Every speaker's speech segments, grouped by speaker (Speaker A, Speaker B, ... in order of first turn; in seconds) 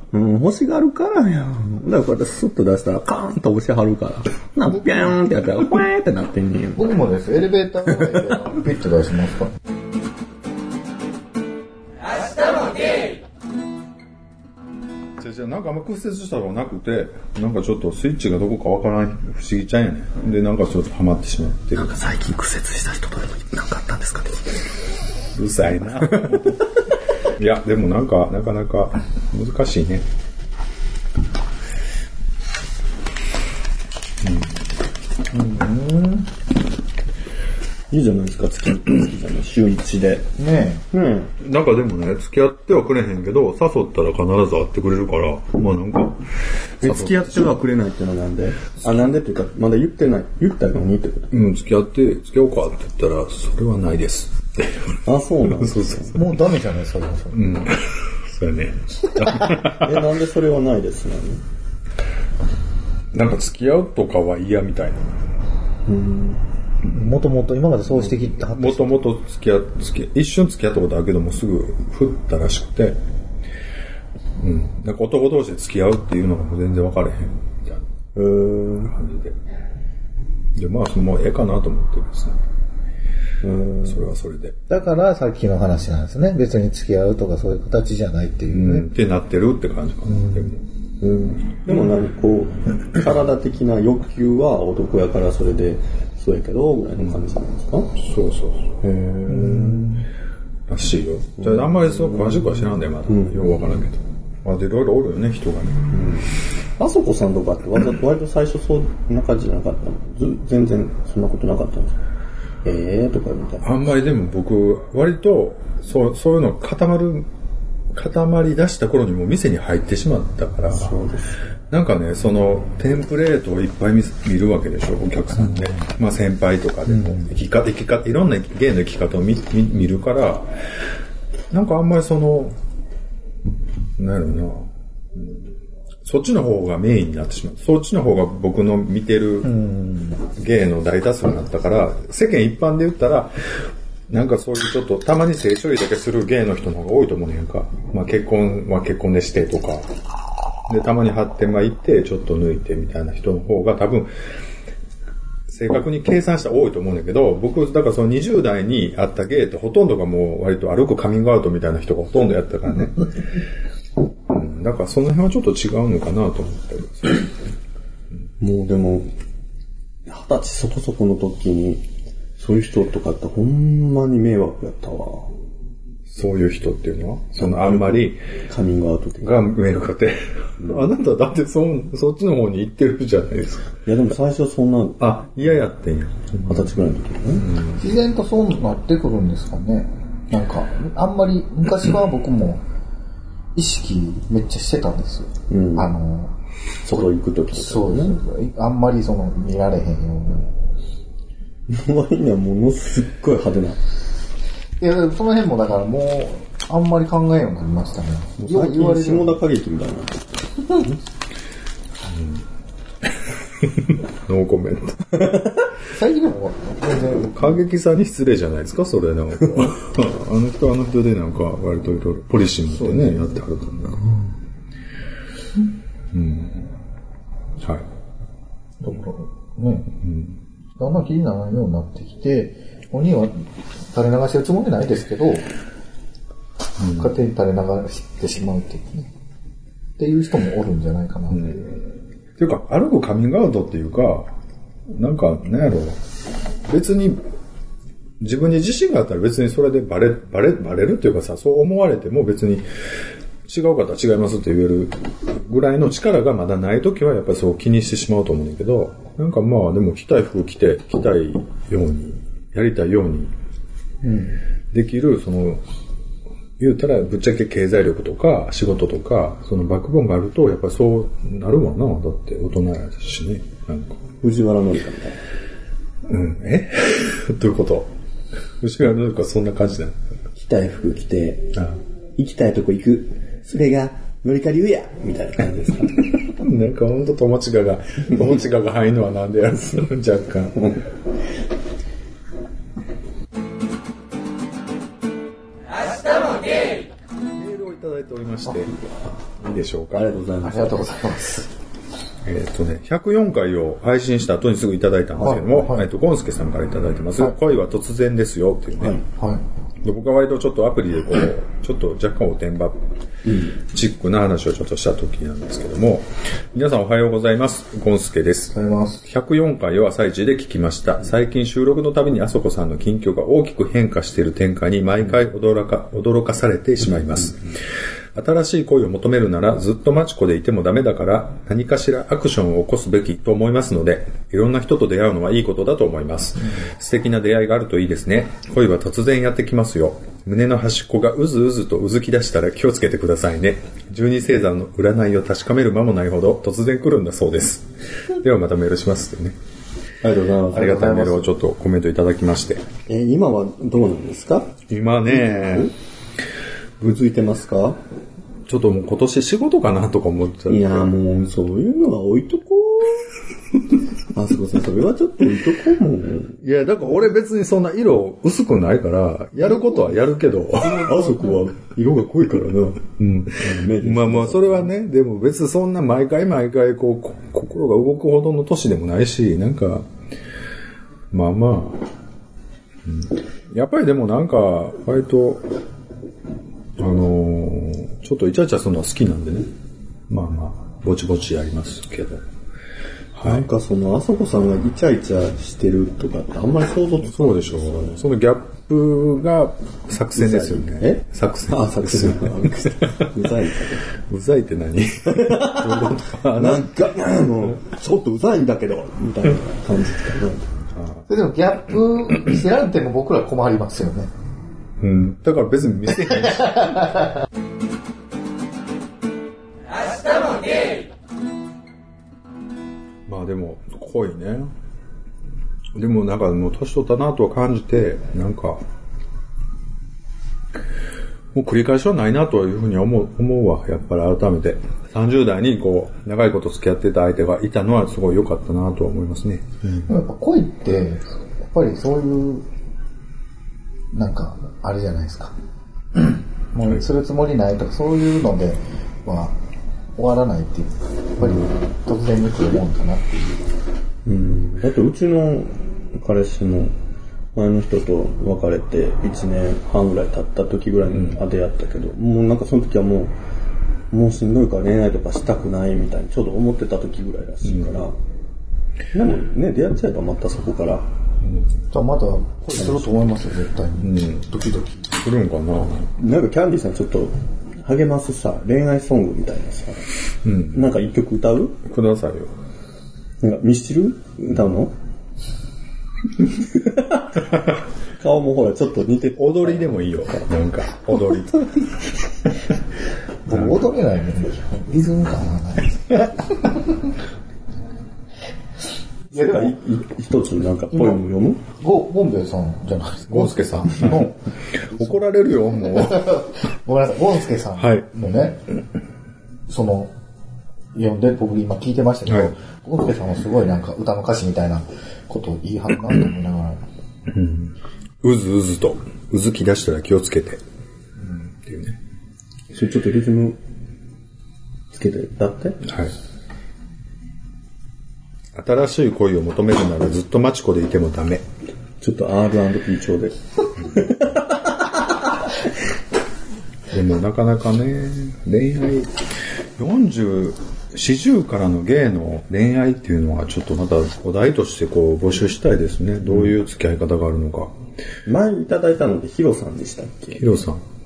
Speaker A: 0.1-7.0, 21.7-24.6, 26.0-26.4, 37.9-40.3, 40.9-41.3, 46.8-51.5, 55.0-56.1, 59.5-61.4, 65.8-66.4, 78.1-79.0, 83.4-84.1, 91.0-97.9, 98.8-100.0, 101.4-103.8, 105.9-112.0, 112.6-113.8, 120.7-121.3, 168.4-169.1, 170.1-171.8, 172.4-175.3, 177.4-179.4, 180.6-180.9, 183.8-185.0, 186.4-187.6, 195.5-195.9, 196.8-198.2, 201.7-203.8, 208.4-211.0, 274.2-275.2, 280.3-281.6, 282.2-286.1, 290.6-290.8, 298.6-299.0, 299.9-300.9, 305.2-305.4, 313.2-313.6, 350.0-351.2, 352.9-355.7, 356.8-357.8, 360.5-363.1, 364.1-366.4, 370.6-372.4, 373.4-374.7, 393.2-398.1, 400.1-403.9, 405.1-410.5, 454.0-456.7, 457.3-463.1, 463.9-467.9, 468.9-470.9, 476.0-481.6, 483.2-484.7, 486.2-487.4, 488.0-489.9, 499.1-501.4, 522.5-523.4, 524.7-525.6, 531.8-535.0, 548.0-550.3
Speaker B: 6.8-9.6, 35.3-36.3, 40.4-40.9, 56.1-57.6, 66.9-69.1, 84.7-88.9, 99.3-99.9, 139.4-140.2, 187.8-192.6, 193.5-196.3, 197.5-200.5, 204.8-209.4, 215.9-217.4, 228.8-229.9, 230.8-235.4, 236.9-239.1, 240.0-241.8, 264.0-264.4, 300.4-301.5, 305.2-305.8, 309.2-309.4, 318.5-319.0, 350.6-351.2, 411.1-414.1, 416.5-416.8, 439.9-442.4, 443.9-445.3, 445.9-449.4, 449.9-453.5, 471.7-474.9, 493.2-496.1, 499.1-499.6, 500.7-501.0, 501.6-504.2, 505.7-508.4, 509.5-509.9, 510.7-516.6
Speaker C: 15.2-22.0, 25.3-26.6, 27.2-30.1, 34.2-34.6, 41.4-46.2, 46.8-47.6, 51.3-55.0, 55.6-56.2, 57.3-60.1, 63.1-65.1, 68.0-73.0, 74.4-77.8, 78.9-79.3, 80.5-82.4, 83.8-84.6, 88.5-90.6, 98.0-98.8, 100.7-105.8, 113.6-117.3, 117.9-121.0, 121.7-130.5, 131.5-132.6, 134.0-135.5, 136.0-139.5, 140.3-143.3, 144.1-149.9, 150.7-154.1, 155.5-163.0, 164.3-167.3, 176.1-178.2, 179.2-183.8, 185.0-186.7, 212.1-212.4, 213.6-215.4, 217.1-224.1, 226.1-226.7, 227.6-227.8, 230.0-230.4, 236.8-237.1, 241.3-241.7, 242.4-244.3, 244.9-246.0, 246.7-247.2, 248.2-252.7, 253.4-263.3, 264.7-265.6, 266.6-274.0, 276.1-277.9, 278.6-280.1, 286.2-290.6, 297.3-298.7, 299.4-300.1, 302.2-309.0, 309.8-312.8, 313.6-318.5, 319.0-327.5, 328.1-349.4, 350.5-352.7, 354.7-355.7, 358.5-360.9, 366.4-379.9, 381.1-381.8, 382.8-385.5, 386.8-389.5, 390.1-392.2, 393.1-393.5, 397.0-403.1, 404.1-406.7, 410.8-411.0, 414.8-416.9, 423.1-424.5, 425.7-428.6, 431.3-439.9, 473.8-474.2, 475.0-475.9, 480.2-480.6, 481.6-482.3, 489.2-491.5, 493.3-493.7, 503.1-506.2, 507.6-507.9, 517.1-520.4, 521.4-521.8, 525.6-525.9, 528.3-531.2, 536.7-538.9, 539.6-547.5, 550.1-550.6